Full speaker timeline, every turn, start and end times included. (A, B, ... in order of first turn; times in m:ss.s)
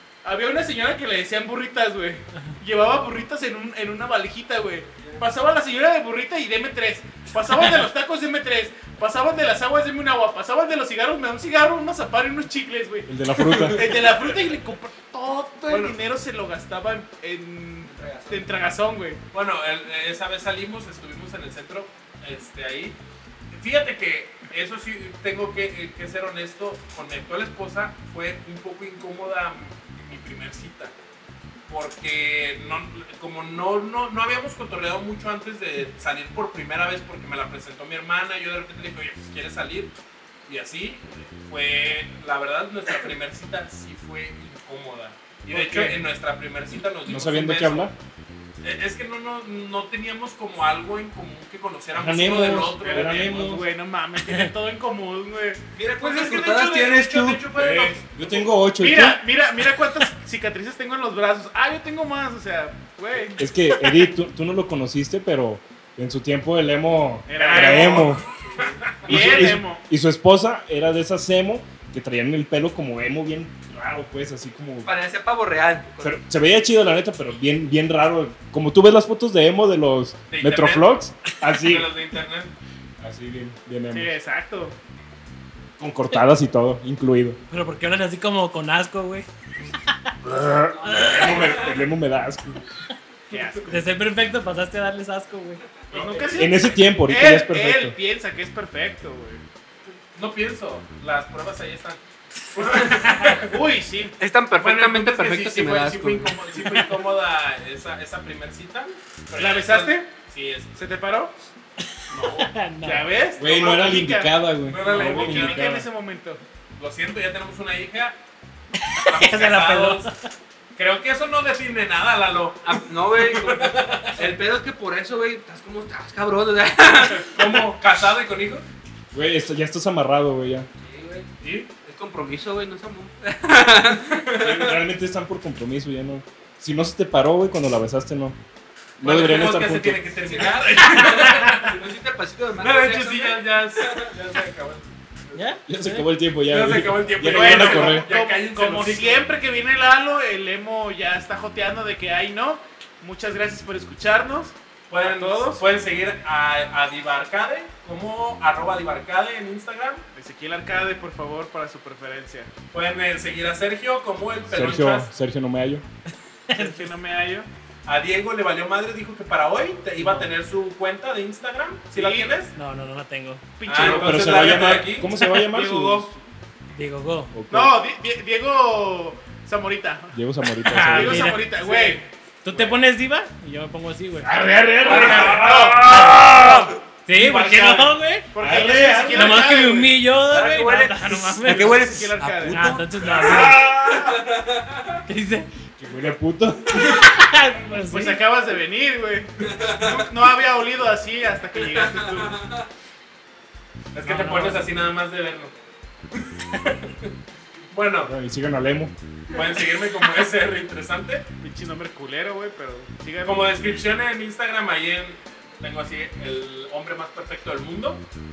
0:00.2-0:19.2 A
0:13.1-0:13.9 B
0:13.4-0:14.2 C
0:15.7-0:16.0 C
0:19.3-0:23.0 C
0:23.5-0:30.9 C
0:31.7-0:39.9 C
0:40.5-0:47.9 C
0:45.5-0:46.0 B
0:47.0-0:47.9 B
0:48.6-0:53.6 C
0:51.9-0:53.6 B
0:52.8-0:55.6 A
0:54.2-0:54.5 D
0:55.8-0:57.4 E
0:55.8-0:58.4 C
0:57.5-0:59.2 B
0:58.8-1:03.5 A
1:03.4-1:08.2 B
1:07.3-1:08.2 A
1:07.3-1:09.5 C
1:09.0-1:09.8 A
1:09.0-1:14.9 B
1:14.8-1:16.2 E
1:16.0-1:21.9 B
1:20.3-1:22.5 C
1:23.0-1:24.2 B
1:23.9-1:24.8 A
1:25.8-1:27.4 B
1:27.5-1:29.3 D
1:30.2-1:32.6 B
1:30.7-1:31.7 E
1:30.8-1:31.3 D
1:33.3-1:33.8 A
1:33.7-1:35.8 D
1:35.9-1:39.4 A
1:36.1-1:36.4 C
1:36.3-1:38.0 B
1:40.1-1:42.0 C
1:42.5-1:43.5 C
1:43.3-1:44.1 A
1:44.2-1:46.3 E
1:44.6-1:50.9 C
1:49.4-1:50.1 A
1:50.8-1:51.3 A
1:52.1-1:52.5 C
1:52.1-1:53.1 D
1:52.8-1:56.4 A
1:53.4-1:55.9 B
1:54.6-1:55.7 C
1:56.8-1:58.2 C
1:58.9-2:00.1 D
1:59.0-2:00.1 C
2:00.8-2:04.2 C
2:02.6-2:07.3 E
2:07.1-2:08.6 C
2:09.1-2:10.7 B
2:10.8-2:14.3 E
2:11.4-2:11.7 C
2:14.1-2:14.7 C
2:14.4-2:18.4 B
2:19.0-2:20.1 B
2:19.0-2:21.8 C
2:20.4-2:24.1 E
2:22.6-2:25.4 C
2:25.3-2:26.0 D
2:25.7-2:28.1 B
2:26.5-2:29.2 C
2:27.3-2:35.6 A
2:34.9-2:40.0 C
2:40.1-2:42.5 A
2:42.7-2:45.1 C
2:44.5-2:45.8 B
2:46.5-2:46.9 D
2:46.5-2:47.5 A
2:47.8-2:52.5 C
2:51.9-2:52.5 A
2:52.5-2:53.5 D
2:53.6-2:56.1 A
2:53.6-2:55.1 C
2:53.7-2:56.2 B
2:56.8-2:57.3 D
2:57.3-2:57.8 B
2:57.5-3:00.2 A
3:00.1-3:01.4 B
3:00.6-3:01.6 D
3:00.9-3:02.0 A
3:01.7-3:02.0 E
3:02.4-3:08.3 D
3:04.2-3:06.7 B
3:04.8-3:06.4 A
3:04.8-3:05.3 C
3:07.1-3:07.8 C
3:07.3-3:10.0 A
3:08.4-3:09.5 B
3:09.1-3:12.0 D
3:10.2-3:14.8 E
3:11.4-3:12.7 A
3:12.5-3:13.7 D
3:13.2-3:14.2 B
3:15.0-3:15.5 D
3:15.8-3:17.0 B
3:16.9-3:18.2 D
3:17.8-3:22.4 A
3:19.5-3:19.9 E
3:22.2-3:22.5 E
3:23.9-3:25.5 C
3:24.0-3:24.6 D
3:26.4-3:27.1 C
3:27.7-3:28.1 C
3:28.0-3:28.9 B
3:29.3-3:31.2 C
3:31.4-3:33.5 A
3:33.2-3:38.0 C